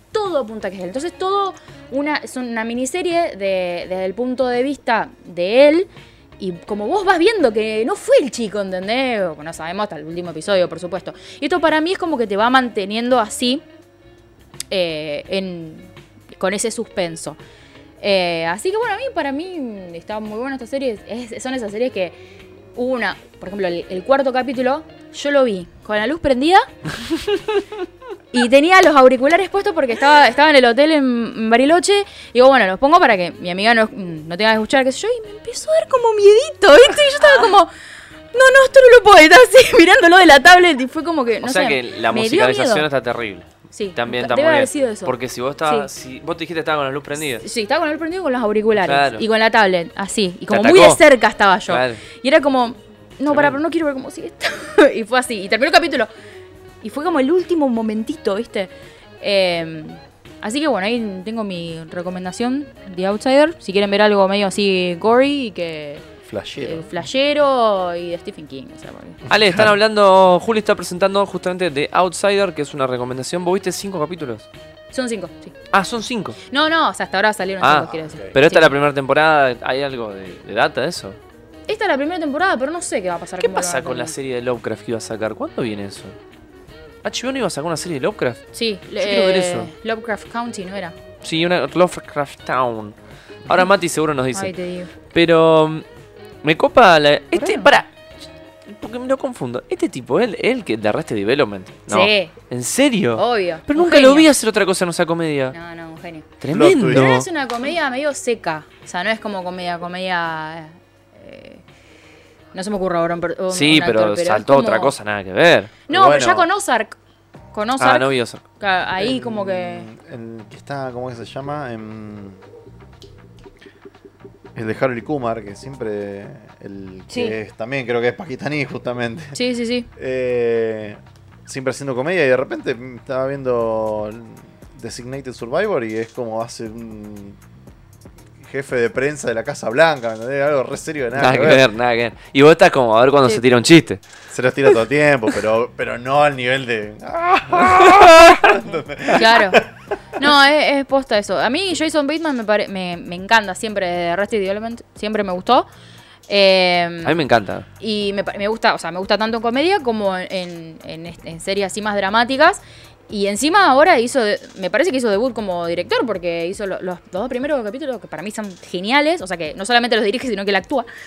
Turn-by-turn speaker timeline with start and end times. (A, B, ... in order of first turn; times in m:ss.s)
0:00.1-0:13.6 A
0:14.7-0:17.4 A
0:18.0-0:22.2 A
0:22.8-0:27.0 A
0:28.3-0:37.7 A
0:38.3-0:42.9 A
0:41.4-0:47.4 B
0:43.7-0:45.9 A
0:47.4-0:56.1 A
0:48.8-0:49.3 B
0:50.5-0:51.0 B
0:51.7-0:52.0 B
0:53.3-0:53.6 B
0:56.8-1:06.1 A
1:06.3-1:06.9 C
1:06.6-1:09.2 A
1:09.3-1:09.8 C
1:09.3-1:14.5 B
1:14.9-1:15.6 A
1:15.7-1:16.4 B
1:16.5-1:18.8 A
1:17.6-1:21.2 B
1:17.9-1:18.4 C
1:21.7-1:24.1 A
1:23.4-1:26.2 B
1:27.0-1:28.4 B
1:28.5-1:31.0 A
1:29.0-1:29.7 B
1:31.2-1:33.0 B
1:33.5-1:34.5 B
1:34.3-1:34.9 A
1:35.1-1:35.8 B
1:36.4-1:37.9 B
1:37.3-1:37.8 A
1:38.7-1:45.6 B
1:41.9-1:42.3 A
1:43.2-1:44.3 A
1:45.5-1:46.3 A
1:46.4-1:47.3 B
1:46.5-1:47.2 C
1:46.8-1:51.6 A
1:52.5-1:55.0 A
1:53.5-1:55.7 B
1:55.9-1:57.0 A
1:55.9-1:56.5 C
1:57.5-1:59.9 A
1:57.8-1:58.4 B
1:59.0-2:02.4 C
2:04.6-2:09.4 C
2:07.1-2:07.4 A
2:09.4-2:09.9 A
2:10.0-2:17.4 C
2:18.4-2:21.6 C
2:21.2-2:24.0 B
2:24.3-2:29.7 C
2:27.8-2:28.5 B
2:29.1-2:29.7 A
2:30.2-2:35.7 A
2:36.3-2:37.2 A
2:37.0-2:37.7 B
2:37.8-2:50.9 A